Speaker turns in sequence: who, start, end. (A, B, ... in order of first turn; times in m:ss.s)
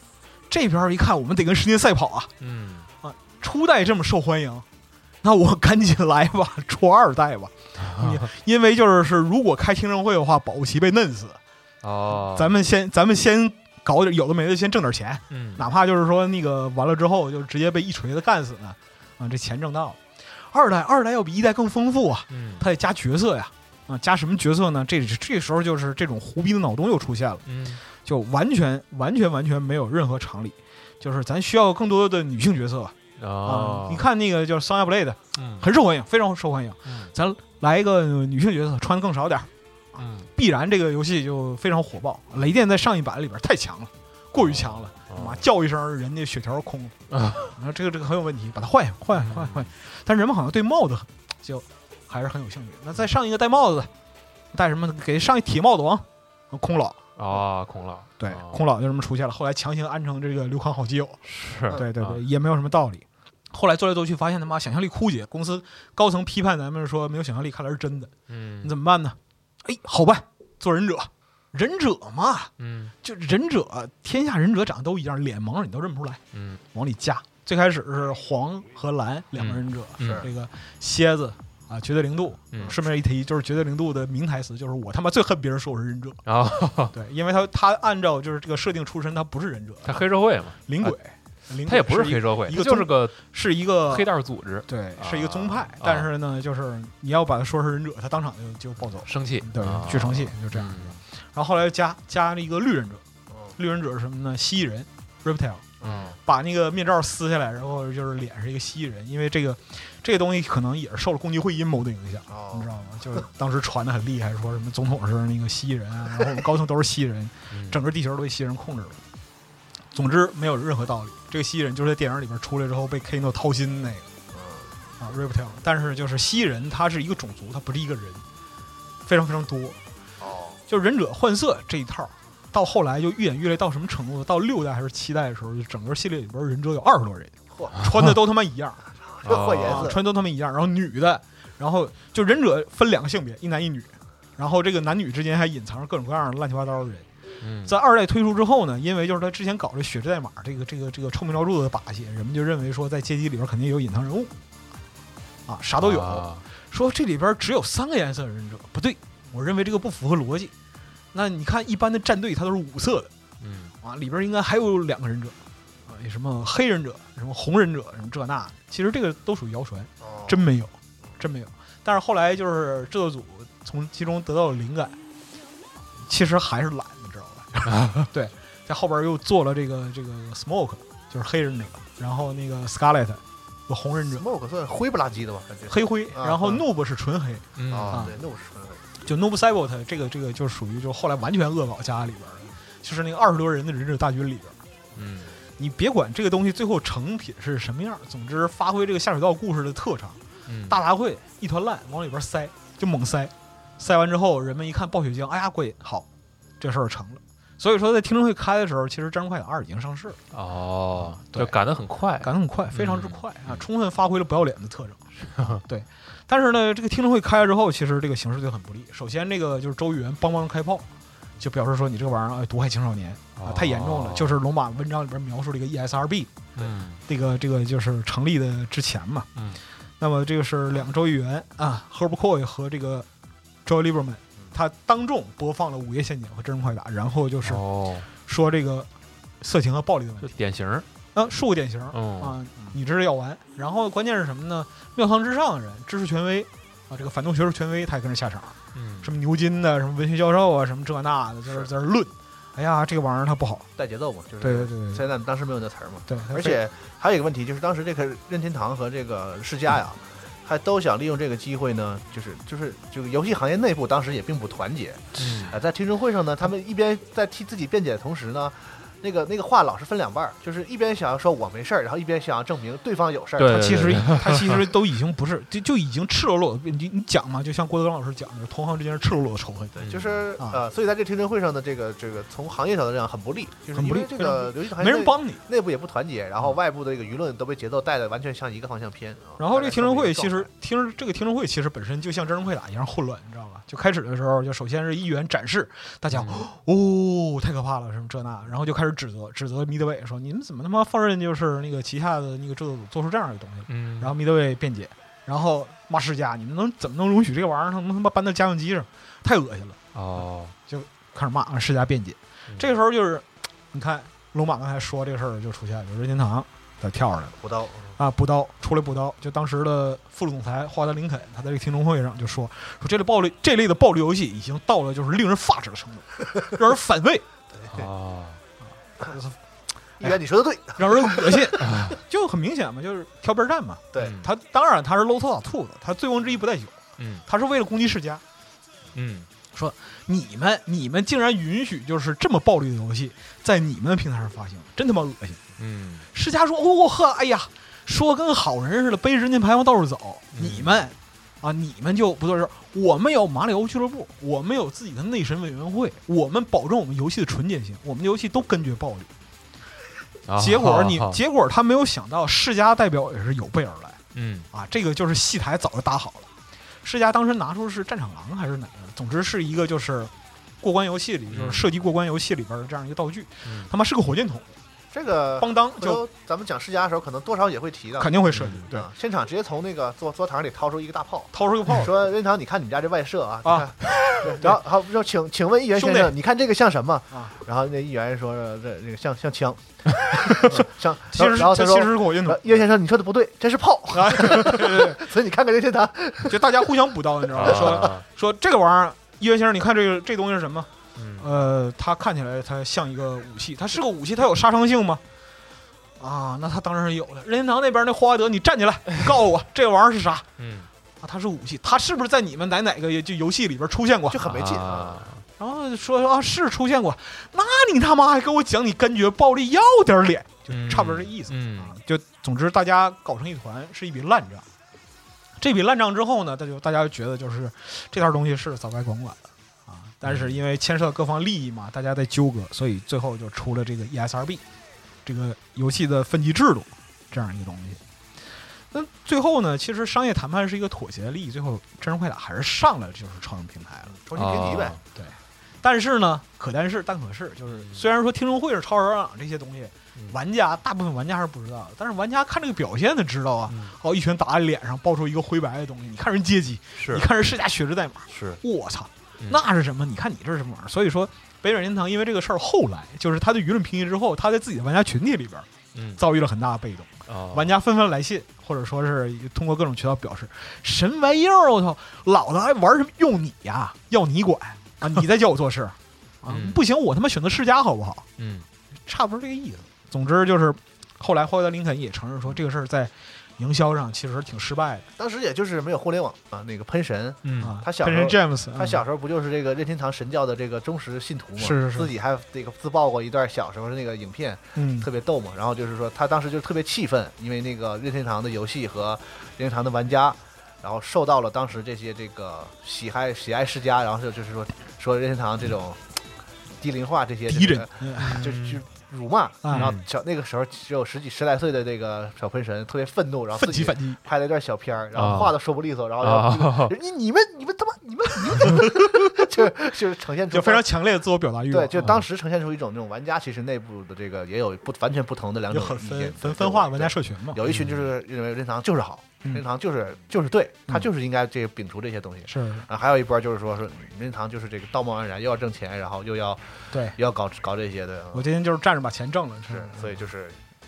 0:00.5-0:02.3 A
0:02.4-0:02.9 B
0:03.0-0:04.7 A
0:05.2-0:11.4 A
0:07.8-0:08.2 B
0:11.8-0:12.6 B
0:12.2-0:39.5 A
0:15.3-0:15.6 B
0:22.3-0:22.6 B
0:27.4-0:27.8 B
0:33.2-0:34.1 B
0:35.4-0:35.6 B
0:36.8-0:37.1 B
0:40.0-0:40.3 B
0:40.3-0:53.9 A
0:44.4-0:45.4 B
0:47.1-0:47.5 B
0:49.2-0:49.7 B
0:54.5-0:57.0 A
0:57.2-0:58.6 B
0:58.2-1:12.5 A
1:01.2-1:02.2 B
1:08.3-1:08.7 B
1:12.6-1:12.9 B
1:13.0-1:16.2 A
1:16.3-1:16.6 B
1:16.7-1:26.2 A
1:19.4-1:20.3 B
1:20.0-1:20.3 C
1:26.2-1:26.9 B
1:26.9-1:30.0 A
1:29.8-1:31.0 B
1:30.7-1:34.1 A
1:31.6-1:33.2 B
1:33.9-1:36.1 B
1:34.7-1:43.0 A
1:39.0-1:41.0 B
1:43.6-1:45.7 A
1:45.8-1:46.2 C
1:45.8-1:46.2 B
1:46.2-1:59.0 A
1:52.3-1:52.7 C
1:57.5-1:57.8 B
1:59.9-2:04.1 A
2:04.3-2:04.7 C
2:05.0-2:08.2 A
2:09.1-2:09.8 A
2:10.2-2:10.6 C
2:10.7-2:18.8 A
2:19.1-2:20.0 C
2:19.2-2:19.9 B
2:19.6-2:27.1 A
2:27.4-2:27.7 B
2:27.6-2:34.3 A
2:35.5-2:40.5 A
2:35.8-2:36.4 B
2:41.1-2:43.1 A
2:43.4-2:43.7 B
2:43.8-2:45.4 A
2:45.9-2:55.0 A
2:50.0-2:50.4 C
2:56.0-3:04.2 A
3:04.1-3:06.6 C
3:05.7-3:08.2 A
3:07.6-3:08.2 B
3:07.7-3:08.8 C
3:09.0-3:14.6 A
3:15.0-3:15.3 B
3:15.6-3:20.2 A
3:20.5-3:20.8 B
3:20.7-3:26.1 A
3:26.6-3:30.2 A
3:30.3-3:33.6 B
3:31.0-3:31.6 A
3:32.2-3:40.9 A
3:35.2-3:35.6 B
3:41.4-3:46.3 A
3:43.4-3:44.4 B
3:46.6-3:47.0 B
3:47.1-3:49.3 A
3:49.4-3:49.6 B
3:50.0-3:53.1 A
3:53.7-3:57.6 A
3:57.4-3:58.1 B
3:58.2-3:58.9 A
3:59.4-4:00.3 A
4:00.2-4:00.9 B
4:01.1-4:13.7 A
4:01.9-4:02.4 B
4:08.7-4:09.1 B
4:13.8-4:33.8 C
4:14.4-4:15.0 A
4:16.1-4:16.6 A
4:25.2-4:25.6 B
4:33.4-4:34.6 B
4:33.5-4:39.8 A
4:39.8-4:40.3 B
4:39.8-4:50.5 C
4:43.7-4:45.4 A
4:49.4-5:09.8 A
4:56.1-4:56.5 B
5:03.7-5:04.1 B
5:09.9-5:10.5 B
5:10.7-5:17.4 A
5:17.4-5:18.0 C
5:18.0-5:27.3 A
5:27.5-5:27.8 C
5:27.7-5:28.4 B
5:29.0-5:29.4 A
5:30.0-5:31.8 C
5:30.8-5:38.2 A
5:31.6-5:32.0 B
5:34.0-5:34.3 B
5:37.0-5:37.2 B
5:38.9-5:39.3 B
5:39.5-5:45.4 A
5:45.6-5:46.1 B
5:46.1-5:59.1 A
5:50.3-5:50.8 B
6:00.3-6:01.2 B
6:00.4-6:04.0 A
6:04.1-6:04.5 B
6:04.5-6:06.3 A
6:06.8-6:14.5 A
6:11.3-6:11.7 B
6:13.4-6:13.7 B
6:14.9-6:36.5 C
6:15.4-6:16.0 A
6:18.0-6:18.9 A
6:18.3-6:18.6 B
6:21.3-6:22.0 A
6:23.4-6:24.6 A
6:25.8-6:26.1 A
6:30.5-6:32.6 A
6:33.9-6:35.0 A
6:36.3-6:45.0 A
6:37.4-6:38.0 B
6:37.4-6:37.8 C
6:41.0-6:41.3 B
6:46.0-6:50.3 A
6:50.4-6:50.7 B
6:51.0-6:54.2 A
6:54.1-6:55.0 C
6:54.2-6:55.2 B
6:55.4-7:04.5 A
7:00.5-7:01.8 B
7:05.4-7:14.4 A
7:10.0-7:10.4 B
7:15.0-7:17.8 A
7:18.7-7:23.9 A
7:23.9-7:24.8 C
7:24.1-7:24.8 B
7:25.0-7:58.0 A
7:27.5-7:27.8 B
7:33.5-7:33.8 B
7:36.8-7:37.1 B
7:38.1-7:38.4 B
7:45.7-7:46.0 B
7:47.1-7:47.6 B
7:56.3-7:56.6 B
7:58.2-7:58.5 B
7:58.9-8:04.9 A
8:05.0-8:26.0 C
8:07.2-8:07.6 B
8:07.4-8:08.8 A
8:11.4-8:11.9 A
8:14.6-8:14.9 A
8:26.6-8:40.7 C
8:27.3-8:28.2 A
8:28.0-8:28.6 B
8:29.4-8:29.7 A
8:29.6-8:29.9 B
8:33.4-8:34.0 A
8:34.9-8:35.4 B
8:36.0-8:36.8 B
8:38.8-8:39.4 A
8:40.3-8:42.0 A
8:41.5-8:58.3 C
8:45.5-8:47.4 A
8:47.5-8:47.8 B
8:52.3-8:52.7 A
8:56.7-8:57.0 A
8:58.1-9:00.0 A
8:59.5-9:00.4 C